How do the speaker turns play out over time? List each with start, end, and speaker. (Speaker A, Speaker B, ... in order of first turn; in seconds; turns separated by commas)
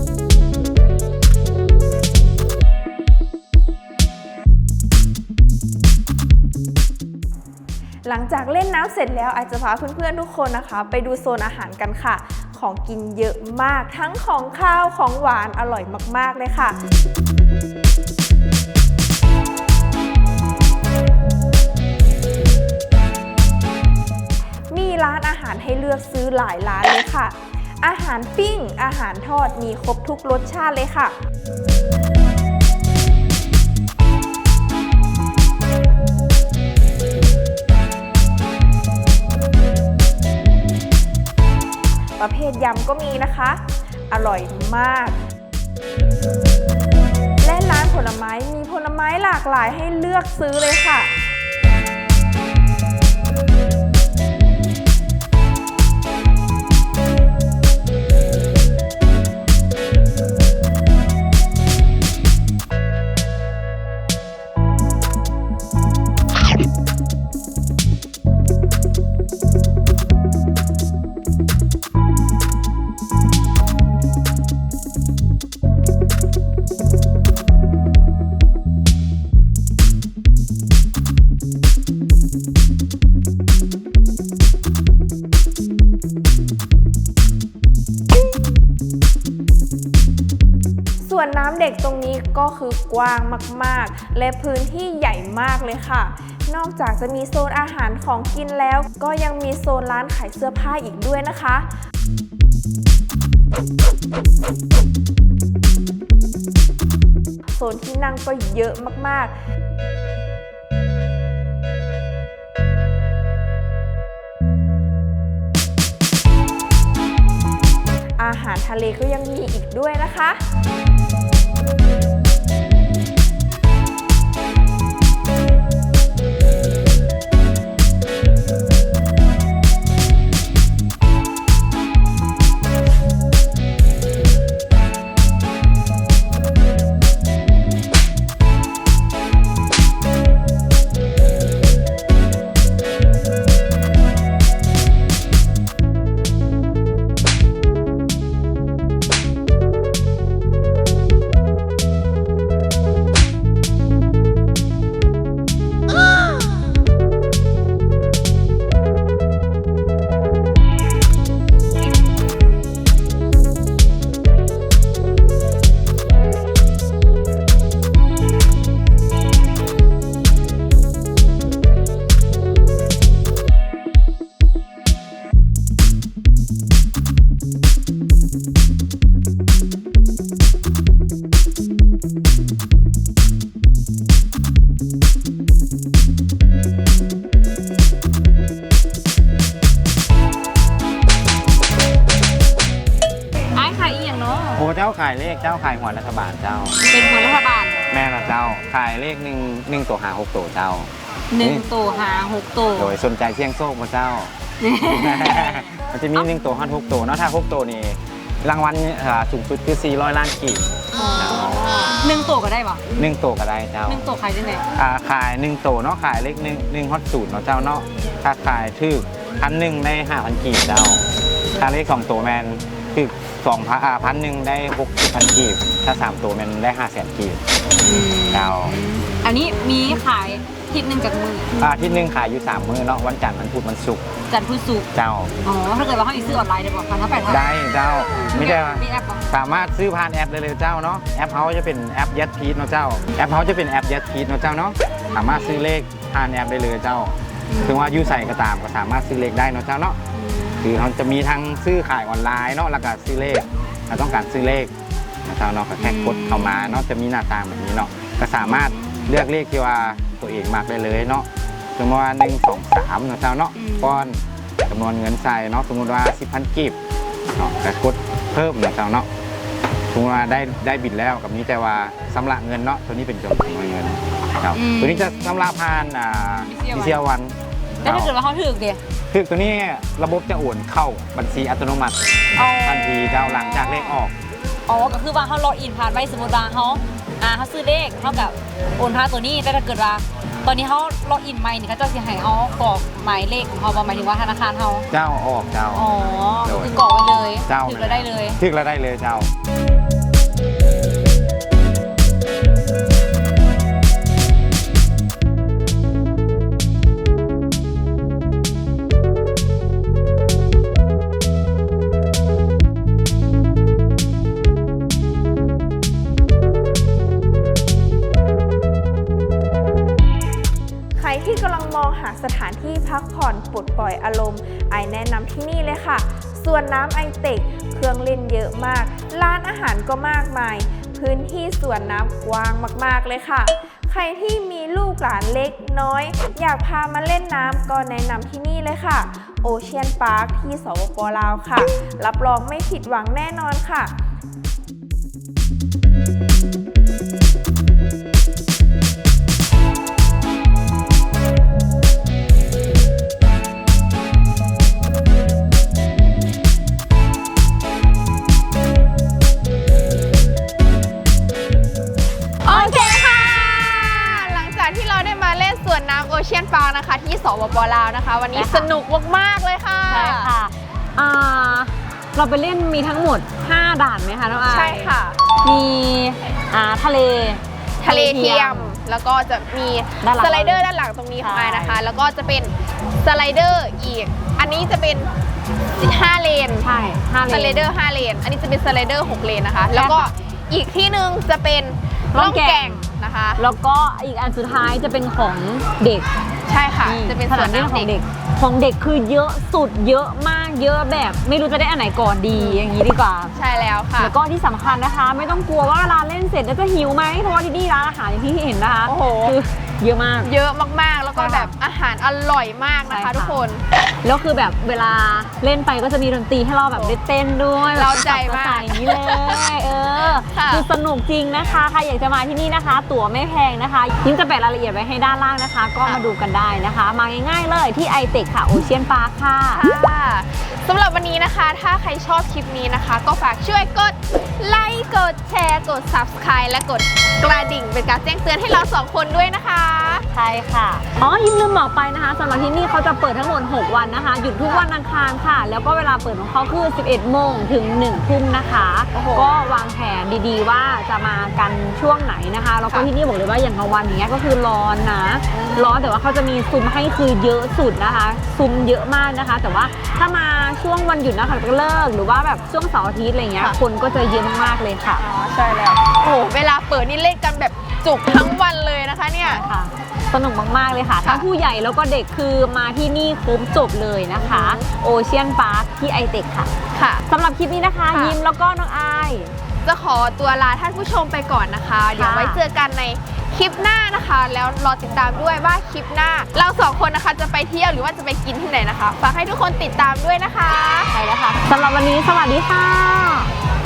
Speaker A: 8.1-16.8, Speaker A: 24.7-31.1, Speaker A: 42.2-45.2, Speaker A: 47.4-51.1, Speaker A: 91.0-101.7, Speaker A: 107.6-109.3, Speaker A: 118.2-120.4, Speaker B: 193.5-194.6, Speaker C: 194.5-196.8, Speaker B: 196.8-197.8, Speaker C: 197.9-201.7, Speaker B: 201.3-202.9, Speaker C: 202.8-204.3, Speaker B: 204.6-205.7, Speaker C: 204.9-211.8, Speaker B: 210.9-212.8, Speaker C: 212.9-214.0, Speaker B: 213.9-214.6, Speaker C: 214.7-221.1, Speaker C: 221.6-227.4, Speaker B: 227.8-231.6, Speaker C: 228.3-228.8, Speaker C: 231.6-234.1, Speaker B: 234.3-234.9, Speaker C: 234.9-235.3, Speaker B: 235.4-237.5, Speaker C: 237.2-250.0, Speaker B: 238.3-239.2, Speaker B: 245.1-245.6, Speaker B: 247.5-248.0, Speaker B: 250.1-250.6, Speaker C: 250.6-254.7, Speaker C: 255.2-266.8, Speaker B: 255.8-256.8, Speaker B: 258.4-259.2, Speaker B: 263.5-264.0, Speaker C: 267.3-269.1, Speaker C: 269.9-278.1, Speaker B: 274.5-275.5, Speaker B: 276.4-277.0, Speaker B: 277.8-278.8, Speaker C: 279.1-284.1, Speaker B: 282.3-284.0, Speaker B: 284.7-294.9, Speaker C: 294.9-295.9, Speaker B: 295.7-298.4, Speaker C: 296.4-296.8, Speaker C: 297.4-299.3, Speaker A: 320.9-343.9, Speaker D: 362.4-370.3, Speaker B: 362.5-362.9, Speaker B: 368.3-368.7, Speaker B: 369.9-378.7, Speaker D: 374.4-375.2, Speaker D: 377.8-385.1, Speaker B: 380.0-380.7, Speaker B: 381.2-381.8, Speaker D: 385.8-386.7, Speaker B: 386.6-387.7, Speaker D: 387.3-393.4, Speaker B: 389.8-390.1, Speaker B: 392.1-392.9, Speaker B: 393.4-396.1, Speaker D: 396.5-397.9, Speaker B: 396.9-403.3, Speaker D: 402.3-402.6, Speaker D: 403.3-404.1, Speaker B: 404.0-410.3, Speaker D: 408.9-409.4, Speaker D: 410.2-413.6, Speaker B: 411.1-411.5, Speaker B: 412.9-413.4, Speaker B: 414.0-429.6, Speaker D: 417.7-419.4, Speaker D: 420.3-420.6, Speaker D: 429.5-440.1, Speaker B: 440.1-465.0, Speaker D: 448.9-449.3, Speaker D: 455.3-455.7, Speaker D: 465.0-469.4, Speaker B: 469.2-476.5, Speaker D: 474.2-474.6, Speaker D: 476.7-477.0, Speaker B: 477.1-479.3, Speaker D: 477.9-478.2, Speaker D: 479.6-490.9, Speaker B: 481.9-482.4, Speaker B: 490.9-493.3